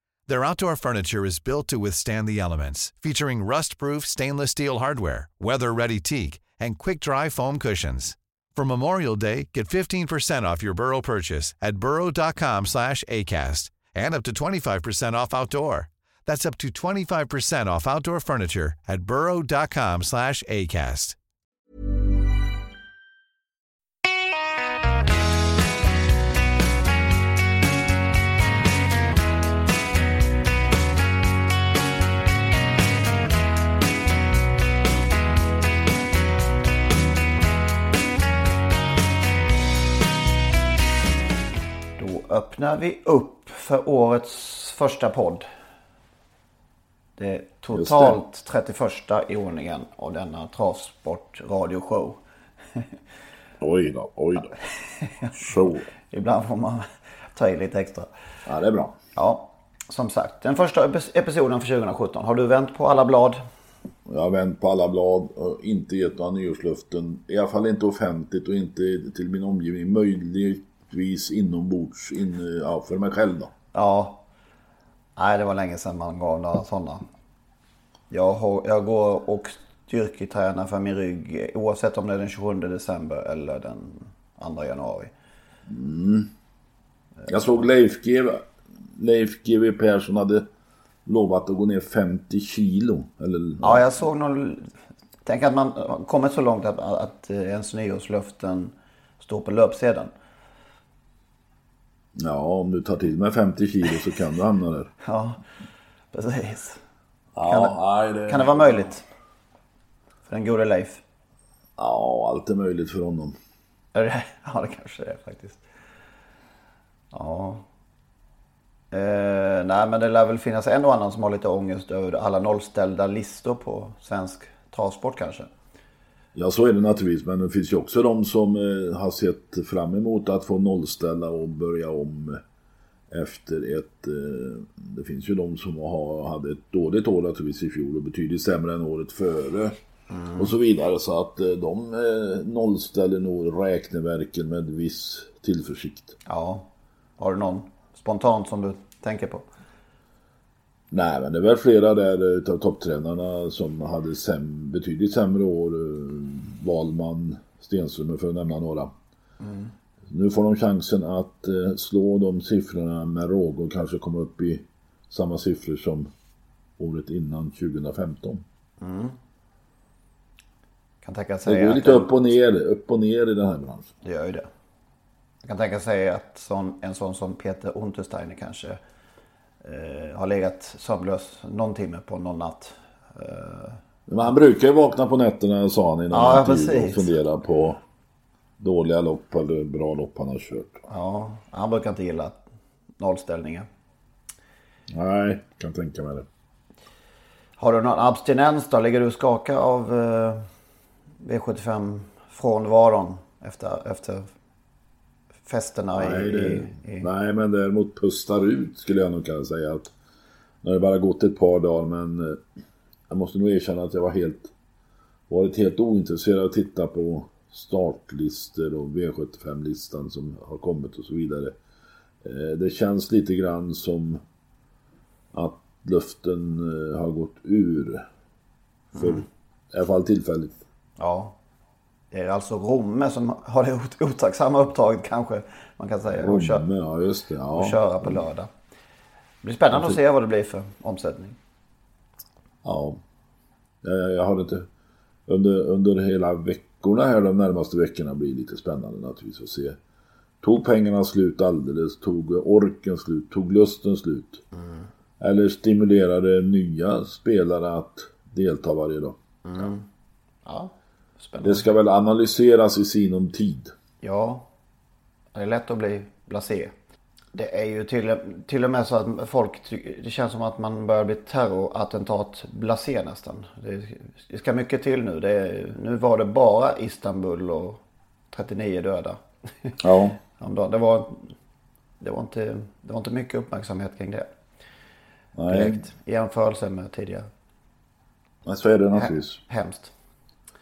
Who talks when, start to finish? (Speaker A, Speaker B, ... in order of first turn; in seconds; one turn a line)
Speaker A: 0.3-21.2
Speaker B: 42.0-45.5
Speaker B: 47.2-52.2
Speaker C: 47.7-48.2
Speaker C: 53.6-54.6
Speaker B: 55.0-55.3
Speaker C: 55.3-55.9
Speaker B: 56.1-58.1
Speaker C: 58.5-59.0
Speaker B: 59.1-63.4
Speaker C: 64.1-73.5
Speaker B: 73.7-74.2
Speaker B: 75.2-77.0
Speaker B: 78.1-85.1
Speaker C: 85.7-86.3
Speaker C: 87.3-90.5
Speaker C: 91.1-93.9
Speaker B: 93.6-94.7
Speaker B: 95.2-100.1
Speaker C: 102.2-104.9
Speaker B: 105.0-105.4
Speaker B: 106.1-106.8
Speaker C: 107.3-108.9
Speaker B: 107.5-107.8
Speaker B: 108.3-109.0
Speaker B: 110.3-111.0
Speaker C: 111.8-113.4
Speaker B: 113.9-115.6
Speaker B: 117.1-117.6
Speaker B: 118.9-125.5
Speaker C: 126.3-132.4
Speaker C: 133.1-139.8
Speaker B: 140.1-140.5
Speaker C: 140.4-146.2
Speaker B: 146.3-149.5
Speaker C: 150.9-158.9
Speaker B: 159.4-159.7
Speaker C: 160.1-166.1
Speaker C: 166.8-168.4
Speaker B: 168.8-169.2
Speaker B: 171.0-172.1
Speaker C: 171.4-173.9
Speaker B: 174.0-174.5
Speaker B: 175.4-178.8
Speaker B: 179.6-183.8
Speaker C: 184.1-187.8
Speaker B: 186.1-187.1
Speaker C: 188.6-190.8
Speaker B: 190.9-192.4
Speaker B: 193.0-193.7
Speaker C: 194.9-196.3
Speaker B: 197.6-200.4
Speaker B: 201.2-204.3
Speaker B: 205.4-207.1
Speaker C: 205.9-209.9
Speaker C: 210.6-212.4
Speaker C: 213.1-214.5
Speaker C: 215.3-221.6
Speaker C: 222.2-224.2
Speaker C: 225.3-228.1
Speaker B: 228.9-229.2
Speaker C: 229.0-230.6
Speaker B: 231.0-231.4
Speaker B: 232.1-236.7
Speaker C: 236.2-238.2
Speaker B: 237.5-238.5
Speaker B: 239.4-241.4
Speaker C: 239.7-240.0
Speaker C: 242.6-243.0
Speaker C: 243.8-244.7
Speaker C: 245.3-249.8
Speaker C: 250.4-254.4
Speaker B: 254.6-254.8
Speaker C: 255.2-259.2
Speaker B: 259.4-259.9
Speaker B: 260.4-261.7
Speaker C: 261.4-263.7
Speaker B: 264.0-264.5
Speaker B: 265.4-266.7
Speaker B: 267.3-277.8
Speaker B: 278.3-279.8
Speaker C: 279.8-280.2
Speaker B: 280.4-281.3
Speaker B: 282.0-284.3
Speaker C: 285.4-285.9
Speaker B: 285.5-287.3
Speaker C: 288.5-289.4
Speaker B: 288.9-289.9